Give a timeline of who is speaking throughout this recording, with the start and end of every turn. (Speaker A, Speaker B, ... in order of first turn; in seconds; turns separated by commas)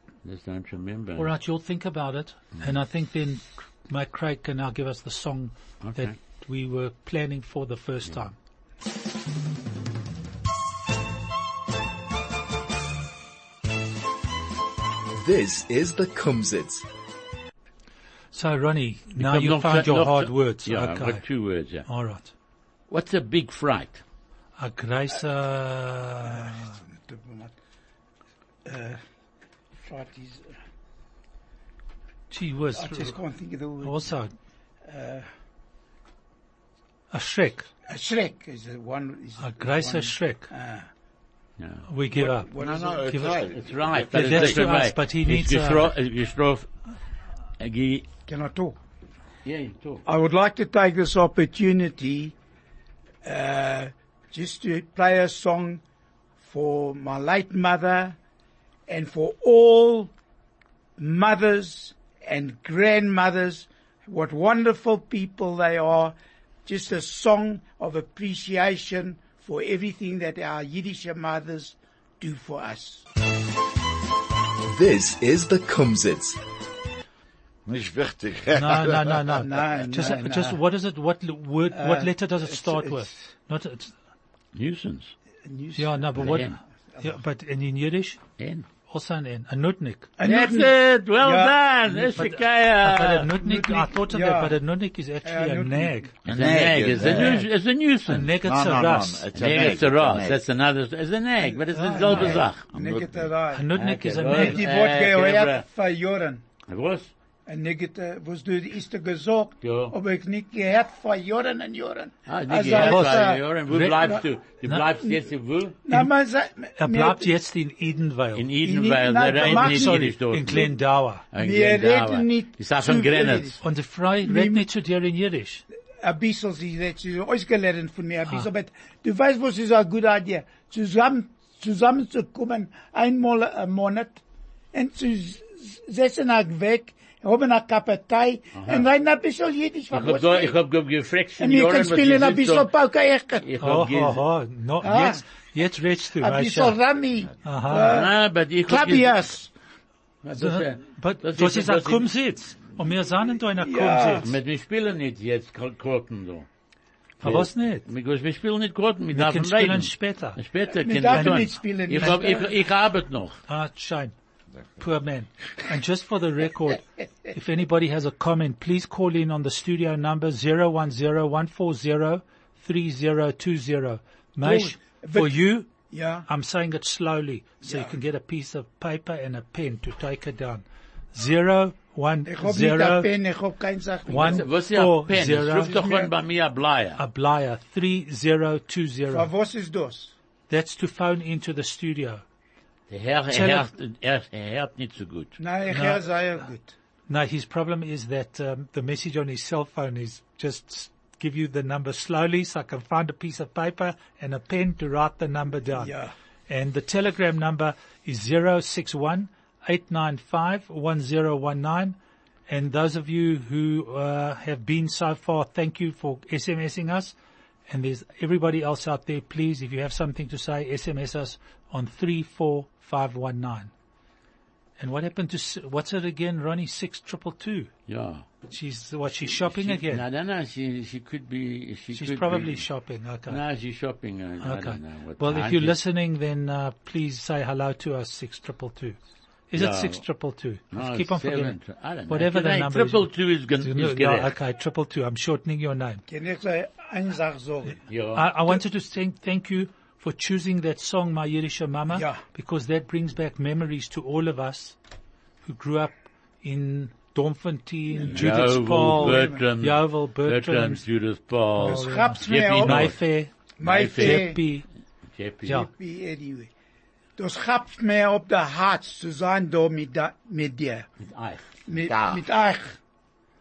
Speaker A: 0.2-1.3, Speaker B: 1.2-8.3, Speaker A: 5.8-6.1, Speaker C: 15.1-16.9, Speaker B: 18.3-21.2, Speaker A: 19.2-21.9, Speaker B: 21.8-22.3, Speaker A: 22.9-24.0, Speaker B: 24.6-26.8, Speaker D: 26.2-27.5, Speaker D: 28.6-29.0, Speaker D: 29.8-30.5, Speaker B: 32.3-33.1, Speaker D: 32.8-34.0, Speaker B: 33.8-34.3, Speaker D: 34.8-35.3, Speaker B: 37.1-37.7, Speaker D: 37.9-40.9, Speaker B: 39.4-40.5, Speaker A: 41.6-41.9, Speaker B: 41.9-42.5, Speaker D: 42.1-43.4, Speaker E: 42.6-44.7, Speaker B: 43.1-43.4, Speaker A: 43.5-46.7, Speaker B: 44.1-45.9, Speaker A: 47.6-48.0, Speaker D: 48.3-48.8, Speaker A: 49.4-50.0, Speaker D: 50.0-52.3, Speaker D: 53.2-55.8, Speaker D: 56.4-58.2, Speaker D: 58.9-60.1, Speaker D: 61.0-73.0, Speaker C: 74.7-76.4, Speaker E: 77.7-79.3, Speaker B: 78.5-83.9, Speaker D: 79.4-80.6, Speaker D: 81.7-83.2, Speaker A: 84.5-85.1, Speaker D: 85.4-86.4, Speaker B: 85.8-88.2, Speaker A: 86.2-86.5, Speaker A: 88.4-88.7, Speaker B: 88.9-90.1, Speaker D: 90.2-92.3, Speaker A: 90.2-93.3, Speaker B: 92.2-96.1, Speaker D: 93.3-94.6, Speaker D: 95.2-96.1, Speaker E: 96.2-97.4, Speaker A: 96.3-98.3, Speaker B: 97.0-97.5, Speaker B: 98.1-99.3, Speaker E: 98.3-100.4, Speaker A: 99.3-102.7, Speaker D: 101.4-103.7, Speaker B: 101.7-102.4, Speaker E: 102.7-103.3, Speaker B: 103.5-104.6, Speaker A: 103.7-105.6, Speaker D: 104.3-106.4, Speaker A: 106.7-107.1, Speaker D: 107.5-113.4, Speaker A: 109.6-109.9, Speaker A: 112.3-115.8, Speaker B: 112.7-114.9, Speaker D: 115.8-117.3, Speaker B: 116.8-118.5, Speaker A: 118.3-120.7, Speaker D: 118.6-120.7, Speaker B: 119.3-121.2, Speaker A: 121.3-123.6, Speaker D: 121.3-123.6, Speaker B: 123.6-125.6, Speaker D: 124.2-124.7, Speaker D: 126.0-134.2, Speaker D: 134.7-140.6, Speaker A: 138.5-138.8, Speaker A: 139.9-142.7, Speaker D: 141.4-143.5, Speaker A: 143.4-144.2, Speaker B: 143.6-146.8, Speaker D: 144.8-145.2, Speaker D: 146.2-148.1, Speaker B: 147.4-148.0, Speaker A: 147.8-149.1, Speaker D: 148.7-149.5, Speaker A: 150.2-152.1, Speaker B: 150.3-154.3, Speaker D: 153.6-154.3, Speaker A: 154.2-156.5, Speaker B: 157.2-157.8, Speaker A: 157.2-163.4, Speaker B: 159.1-160.4, Speaker D: 160.7-162.5, Speaker B: 161.1-162.2, Speaker B: 163.5-164.1, Speaker B: 164.8-175.7, Speaker D: 174.4-176.3, Speaker B: 176.3-183.1, Speaker D: 177.7-177.9, Speaker D: 182.2-184.4, Speaker B: 184.1-185.8, Speaker A: 184.1-187.0, Speaker D: 185.6-186.1, Speaker B: 187.0-189.3, Speaker D: 189.1-190.1, Speaker B: 190.5-192.2, Speaker A: 192.9-195.4, Speaker B: 193.3-193.7, Speaker D: 195.4-196.7, Speaker B: 195.7-196.0, Speaker B: 197.1-205.9, Speaker D: 205.8-206.1, Speaker B: 206.5-212.0, Speaker B: 212.5-217.2, Speaker B: 217.7-223.7, Speaker B: 224.8-227.7, Speaker A: 227.9-228.2, Speaker B: 228.5-230.0, Speaker A: 229.4-232.6, Speaker B: 231.9-233.4, Speaker A: 233.3-235.8, Speaker B: 234.4-239.0, Speaker B: 239.5-241.6, Speaker A: 239.5-240.0, Speaker A: 240.7-244.3, Speaker B: 242.1-243.1, Speaker B: 243.6-246.0, Speaker D: 246.1-247.8, Speaker A: 247.9-248.3, Speaker B: 248.1-254.8, Speaker D: 251.9-252.2, Speaker B: 255.4-260.8, Speaker D: 257.9-259.4, Speaker A: 258.1-263.0, Speaker B: 261.6-264.6, Speaker D: 261.6-262.9, Speaker A: 263.6-264.4, Speaker D: 263.6-264.4, Speaker A: 265.1-265.6, Speaker D: 265.6-266.5, Speaker D: 267.2-270.9, Speaker A: 271.0-271.5, Speaker D: 271.7-272.8, Speaker E: 271.8-272.2